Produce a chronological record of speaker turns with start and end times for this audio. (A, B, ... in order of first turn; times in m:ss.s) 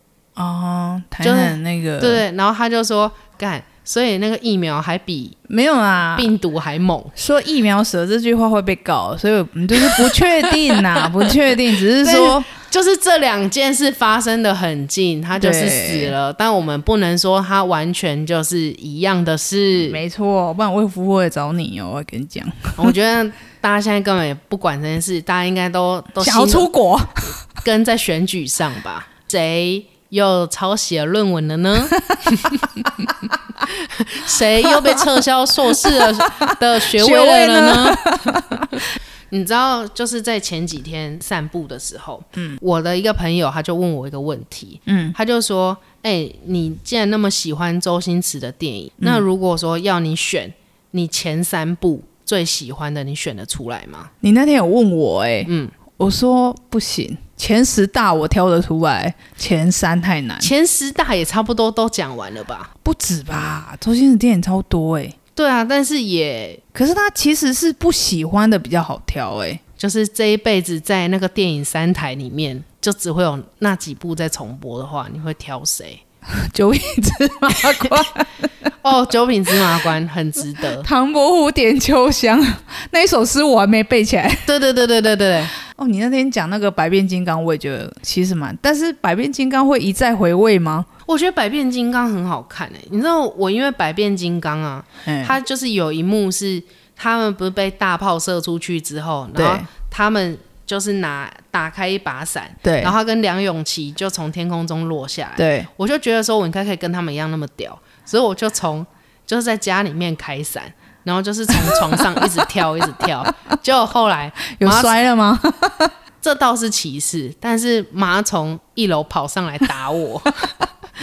0:00.4-0:02.2 A
0:01.2-0:05.4 B
0:05.5-0:06.3 A
0:06.1-0:07.1 B
0:07.2-0:12.4 A
0:09.8-0:11.3 B
0:12.0-0:20.0 B
0:15.4-0:16.1 A
0:19.9-0:22.9 A
0:22.8-0:26.7 B
0:26.2-0:27.3 A
0:27.6-0:54.1 B
0:34.6-0:35.0 A
0:35.8-0:38.7 A
0:44.9-0:45.2 A
0:54.2-1:00.5 A
0:55.4-0:55.8 B
1:00.4-1:02.7 B
1:02.8-1:05.2 A
1:05.4-1:06.6 B
1:06.7-1:09.6 A
1:09.8-1:16.0 B
1:16.3-1:18.3 A
1:18.8-1:20.9 B
1:20.8-1:24.5 A
1:24.4-1:25.5 B
1:25.6-1:30.9 A
1:31.1-1:55.0 B
1:35.0-1:35.3 A
1:39.4-1:39.7 A
1:42.6-1:42.9 A
1:45.4-1:45.7 A
1:51.6-1:52.3 A
1:54.5-1:55.9 A
1:56.2-2:00.5 B